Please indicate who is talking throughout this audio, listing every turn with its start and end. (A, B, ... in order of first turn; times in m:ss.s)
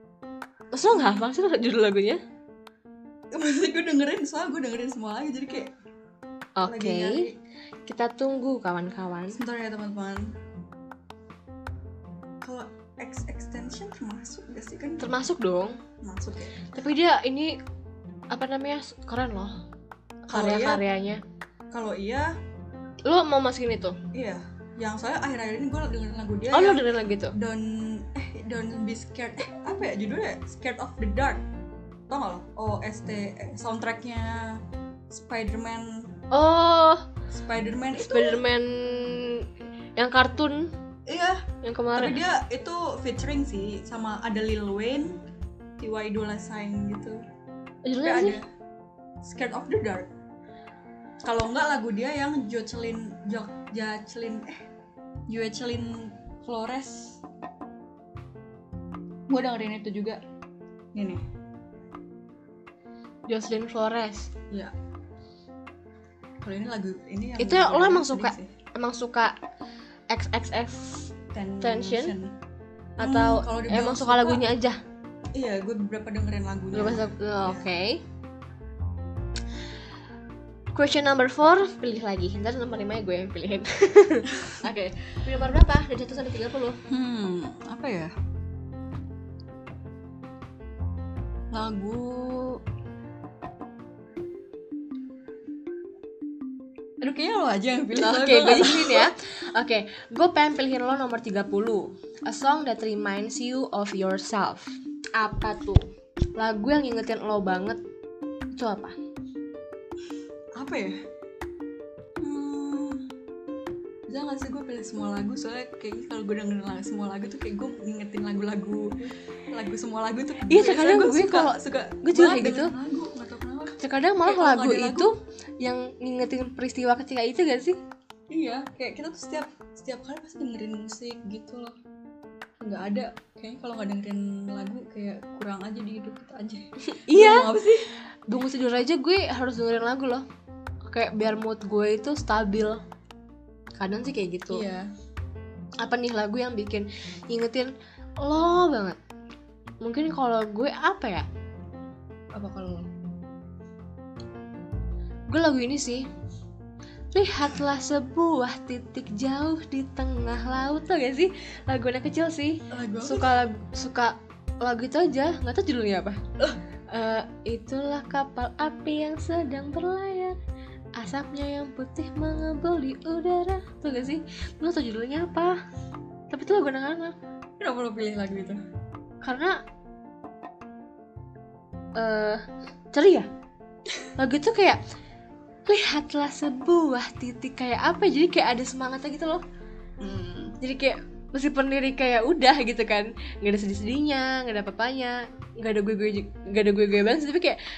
0:00.7-0:02.2 A
0:00.9-0:01.3 B
0:03.3-0:05.7 B
0:06.6-0:07.3 A
0:06.6-0:07.3 B
0:07.8-0:09.4 A
0:09.3-0:10.3 B
0:12.4-0:15.2 B
0:15.0-0:15.8 A
0:16.0-0:16.7 B
0:16.7-0:17.6 A
0:18.3-0:19.5 A
0:20.3-0:21.2 A
0:20.3-0:20.8 B
0:21.7-0:22.3 B
0:23.0-0:24.0 A
0:24.1-0:31.4 B
0:26.5-0:27.3 A
0:32.1-0:34.6 B
0:35.1-0:36.1 B
0:36.3-0:37.0 A
0:37.3-0:38.4 B
0:37.9-0:39.4 A
0:40.0-0:40.7 A
0:41.1-0:41.4 B
0:41.6-0:42.2 A
0:41.9-0:45.2 B
0:45.8-0:47.2 B
0:47.8-0:48.4 A
0:48.0-0:48.4 B
0:49.2-0:50.1 B
0:51.2-0:54.6 B
0:55.3-0:57.2 B
0:59.3-1:00.2 B
1:00.9-1:01.2 B
1:03.3-1:04.3 A
1:06.4-1:08.5 B
1:07.4-1:09.3 A
1:10.1-1:12.1 A
1:11.3-1:12.3 B
1:13.0-1:14.8 A
1:13.0-1:14.4 B
1:15.3-1:17.7 B
1:16.7-1:18.0 A
1:20.7-1:26.8 A
1:26.9-1:28.1 B
1:31.5-1:32.6 B
1:37.0-1:39.1 B
1:37.9-1:45.8 A
1:46.4-1:47.8 A
1:48.6-1:48.9 A
1:50.6-1:50.9 B
1:52.2-1:53.0 B
1:54.1-1:58.9 B
1:59.5-2:03.7 B
2:00.5-2:02.7 A
2:03.8-2:07.8 A
2:04.2-2:05.1 B
2:08.3-2:11.7 B
2:12.6-2:17.8 B
2:16.9-2:17.5 A
2:18.3-2:20.2 A
2:20.9-2:22.8 A
2:23.8-2:24.6 A
2:24.5-2:24.8 B
2:25.8-2:27.7 A
2:28.2-2:29.0 A
2:29.8-2:31.2 A
2:32.3-2:32.8 B
2:35.3-2:36.1 A
2:37.1-2:46.2 A
2:42.7-2:43.4 B
2:46.9-2:50.4 A
2:51.0-2:55.6 A
2:56.3-2:57.2 A
2:57.6-2:58.6 B
2:59.2-2:59.6 A
3:02.0-3:02.4 A
3:02.9-3:03.3 A
3:04.2-3:04.8 A
3:05.7-3:09.4 A
3:10.0-3:10.6 B
3:10.6-3:17.6 A